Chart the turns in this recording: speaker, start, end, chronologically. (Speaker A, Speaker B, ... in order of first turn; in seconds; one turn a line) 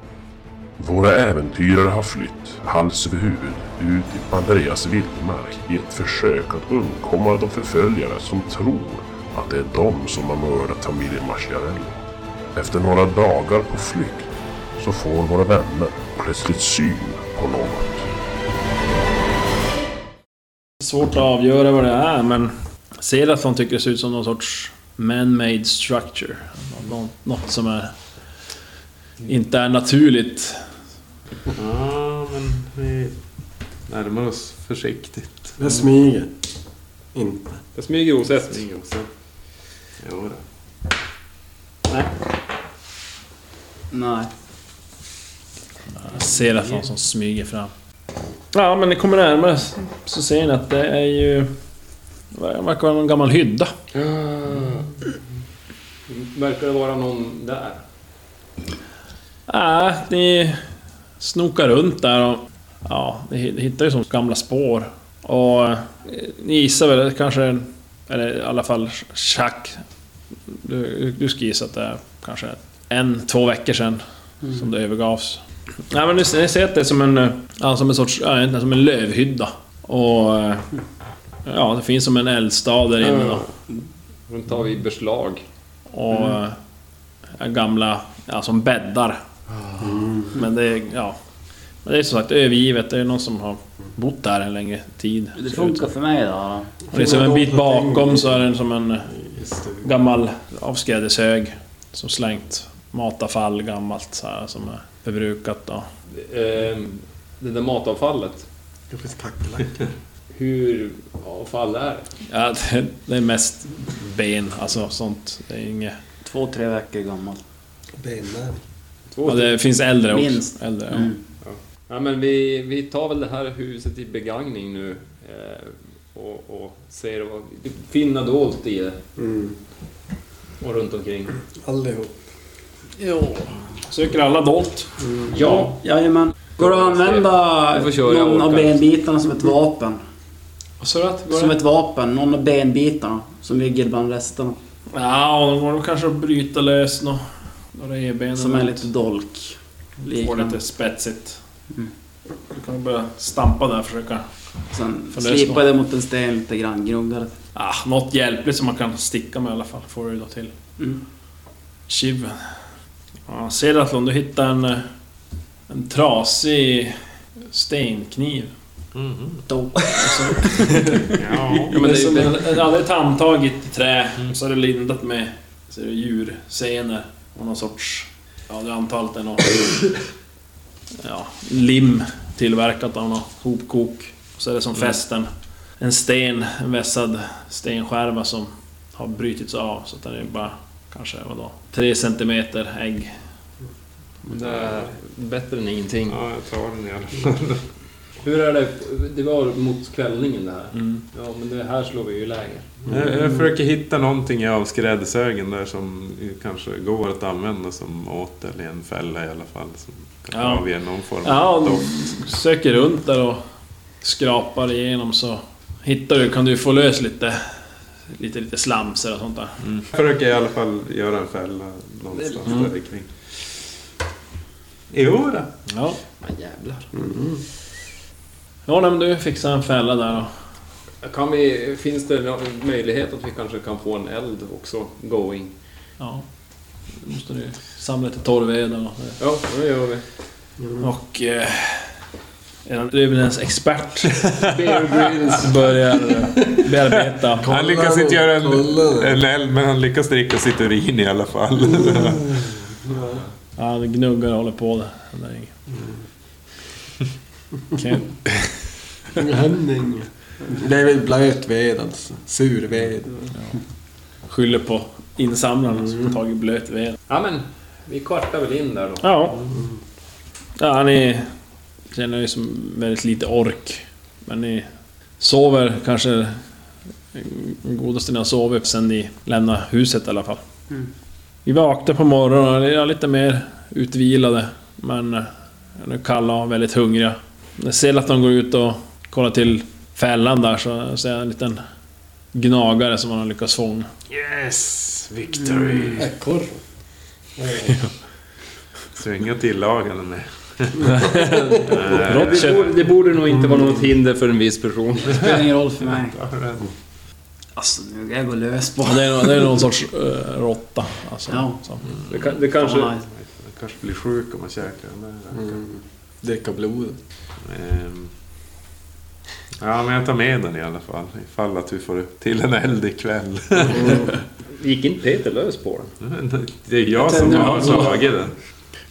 Speaker A: 0.8-18.1
Speaker B: 20.8-27.9
Speaker B: 29.2-30.6
Speaker C: 31.5-33.1
Speaker C: 33.9-35.5
Speaker D: 35.6-36.3
Speaker D: 37.1-37.6
Speaker E: 37.8-38.6
Speaker C: 38.4-39.1
Speaker C: 40.0-40.4
Speaker F: 43.9-44.3
Speaker B: 46.0-47.7
Speaker B: 48.5-51.5
Speaker B: 52.3-53.7
Speaker E: 53.9-54.9
Speaker E: 56.1-57.8
Speaker B: 59.5-60.6
Speaker B: 61.2-69.8
Speaker B: 70.5-80.7
Speaker B: 81.4-83.4
Speaker E: 83.0-83.5
Speaker E: 84.3-85.4
Speaker B: 85.9-86.6
Speaker B: 87.4-89.2
Speaker E: 89.5-90.0
Speaker D: 89.8-90.4
Speaker B: 90.3-91.2
Speaker B: 91.8-95.9
Speaker F: 95.4-96.7
Speaker D: 96.9-98.5
Speaker B: 96.9-99.1
Speaker D: 99.1-99.9
Speaker B: 99.8-105.9
Speaker E: 106.1-108.5
Speaker D: 108.9-109.9
Speaker E: 110.3-112.1
Speaker B: 112.3-116.0
Speaker F: 116.2-117.4
Speaker D: 118.0-118.6
Speaker E: 119.1-119.5
Speaker B: 119.2-121.1
Speaker F: 120.1-121.2
Speaker E: 121.5-129.0
Speaker D: 129.2-129.6
Speaker E: 130.6-131.3
Speaker D: 131.6-132.2
Speaker B: 133.0-134.9
Speaker D: 135.0-135.5
Speaker E: 135.3-135.8
Speaker F: 135.4-140.0
Speaker E: 136.6-138.8
Speaker B: 140.8-141.6
Speaker F: 141.3-144.6
Speaker B: 144.9-148.9
Speaker F: 148.4-150.6
Speaker B: 150.0-151.4
Speaker B: 152.5-154.2
Speaker F: 154.7-157.3
Speaker B: 155.1-155.7
Speaker B: 157.5-160.5
Speaker B: 161.9-162.5
Speaker B: 163.3-164.9
Speaker B: 165.7-167.0
Speaker B: 167.5-168.5
Speaker C: 168.9-169.4
Speaker F: 169.5-171.0
Speaker B: 169.9-179.6
Speaker C: 171.2-172.0
Speaker E: 171.7-172.4
Speaker B: 181.0-185.3
Speaker B: 185.8-193.2
Speaker E: 194.3-196.2
Speaker C: 194.3-194.9
Speaker C: 196.1-197.6
Speaker E: 198.2-202.7
Speaker C: 202.9-211.9
Speaker B: 210.3-210.6
Speaker B: 211.2-213.4
Speaker B: 214.0-217.4
Speaker B: 218.1-219.6
Speaker C: 219.6-223.1
Speaker E: 222.1-222.6
Speaker C: 224.9-225.5
Speaker B: 225.7-226.0
Speaker E: 226.2-226.9
Speaker D: 226.9-227.4
Speaker B: 228.7-230.3
Speaker E: 231.0-235.5
Speaker B: 237.0-239.2
Speaker E: 239.2-240.0
Speaker D: 240.6-240.8
Speaker B: 240.8-241.9
Speaker B: 242.7-244.3
Speaker C: 244.4-245.3
Speaker E: 244.4-245.5
Speaker B: 245.3-247.5
Speaker D: 247.4-249.2
Speaker C: 247.4-252.4
Speaker D: 251.8-253.2
Speaker B: 253.6-255.5
Speaker B: 257.7-258.1
Speaker D: 259.1-263.1
Speaker B: 264.3-267.0
Speaker E: 267.1-269.0
Speaker B: 269.0-269.4
Speaker B: 270.6-271.3
Speaker B: 271.9-274.7
Speaker B: 275.2-276.4
Speaker B: 277.1-280.4
Speaker B: 281.4-291.6
Speaker B: 292.3-293.9
Speaker C: 294.1-296.0
Speaker D: 295.9-296.6
Speaker D: 297.4-297.7
Speaker C: 298.9-302.6
Speaker B: 300.9-302.7
Speaker E: 301.9-305.3
Speaker F: 305.1-306.2
Speaker C: 305.2-306.7
Speaker F: 307.6-309.6
Speaker B: 308.8-311.8
Speaker F: 311.3-311.6
Speaker E: 312.1-312.9
Speaker F: 312.6-313.0
Speaker C: 313.1-315.6
Speaker D: 315.3-317.0
Speaker C: 317.4-318.1
Speaker C: 319.6-324.1
Speaker D: 323.7-324.1
Speaker E: 324.6-325.9
Speaker C: 326.0-328.3
Speaker F: 327.0-328.0